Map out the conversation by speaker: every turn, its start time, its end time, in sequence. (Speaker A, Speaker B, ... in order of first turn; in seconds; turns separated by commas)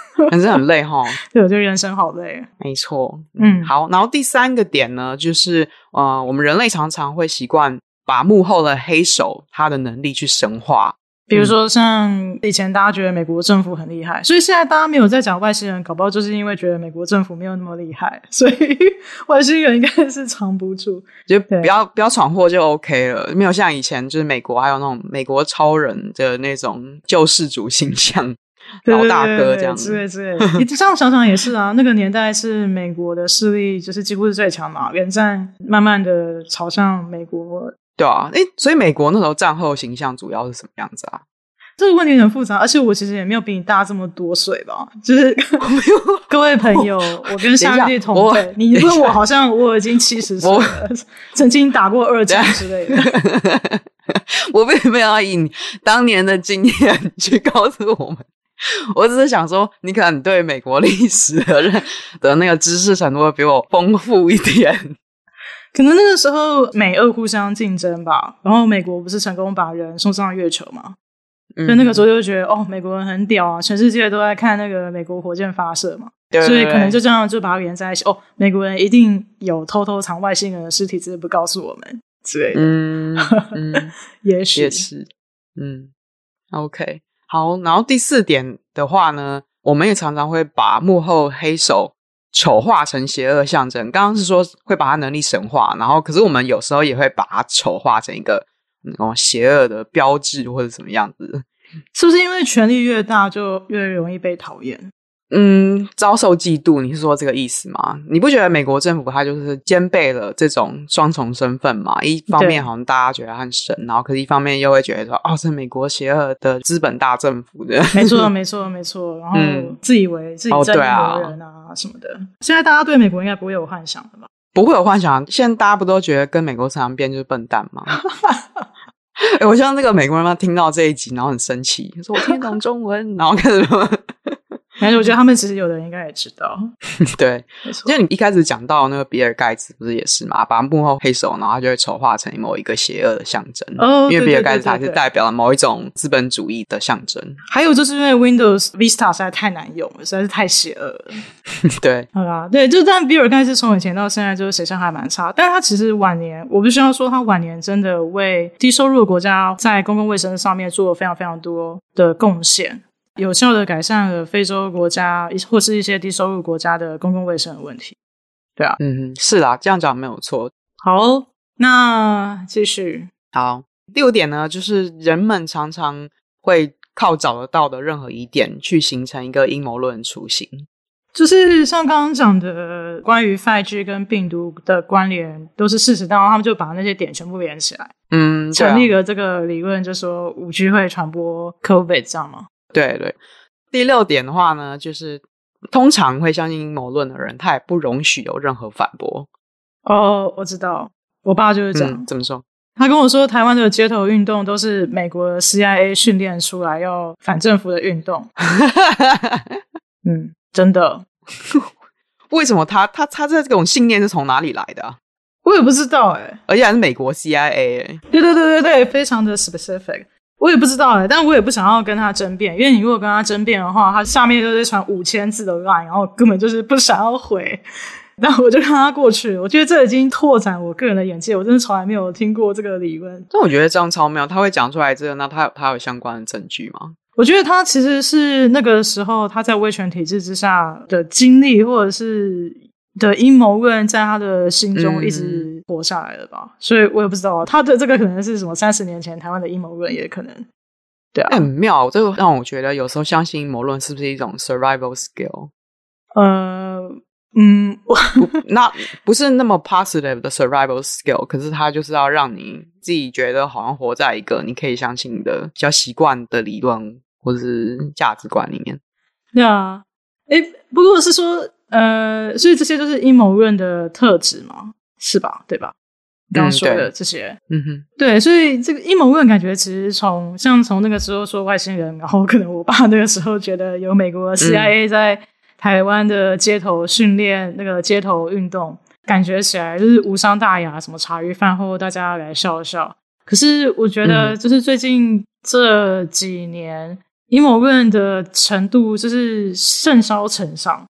Speaker A: 0.3-1.2, Speaker B: 1.3-2.5, Speaker A: 2.6-11.5, Speaker B: 3.4-3.7, Speaker B: 11.3-21.7, Speaker A: 21.3-30.6, Speaker B: 28.9-37.7, Speaker A: 38.0-41.2, Speaker B: 41.8-45.7, Speaker A: 45.6-49.1, Speaker B: 46.3-53.1, Speaker A: 50.4-50.8, Speaker A: 52.3-58.3, Speaker A: 58.9-65.0, Speaker B: 65.7-71.0, Speaker A: 71.5-72.0, Speaker B: 71.7-82.7, Speaker A: 76.3-77.0, Speaker A: 82.5-83.9, Speaker B: 83.2-84.9, Speaker A: 84.5-85.9, Speaker A: 86.5-101.5, Speaker B: 101.9-104.9, Speaker A: 105.3-118.3, Speaker B: 112.3-112.7, Speaker B: 117.9-124.3, Speaker A: 119.3-119.8, Speaker A: 120.5-121.4, Speaker A: 124.5-128.0, Speaker B: 128.2-128.7, Speaker A: 129.2-134.6, Speaker B: 134.8-136.6, Speaker A: 137.0-147.4, Speaker B: 137.7-137.9, Speaker B: 143.8-145.0, Speaker B: 147.5-151.2, Speaker A: 151.8-152.1, Speaker B: 152.1-168.0, Speaker A: 168.8-170.5, Speaker B: 170.8-173.1, Speaker A: 173.3-180.7, Speaker B: 181.1-187.9, Speaker A: 188.1-188.9, Speaker B: 188.5-192.5, Speaker A: 192.7-193.2, Speaker A: 193.7-199.3, Speaker B: 199.8-202.1, Speaker A: 201.8-202.4, Speaker B: 202.8-208.3, Speaker A: 208.4-209.6, Speaker B: 210.1-211.1, Speaker A: 212.3-215.0, Speaker B: 215.4-216.4, Speaker A: 216.5-218.0, Speaker B: 218.1-227.6, Speaker B: 228.2-233.3, Speaker A: 233.3-237.0, Speaker B: 237.2-250.5, Speaker A: 244.8-245.5, Speaker B: 251.1-251.5, Speaker A: 251.3-255.5, Speaker B: 256.1-258.2, Speaker A: 258.2-268.8, Speaker B: 269.3-275.7, Speaker B: 276.3-277.4, Speaker A: 276.4-276.9, Speaker A: 277.5-277.9, Speaker B: 278.0-300.9, Speaker A: 284.4-284.7, Speaker A: 294.0-294.4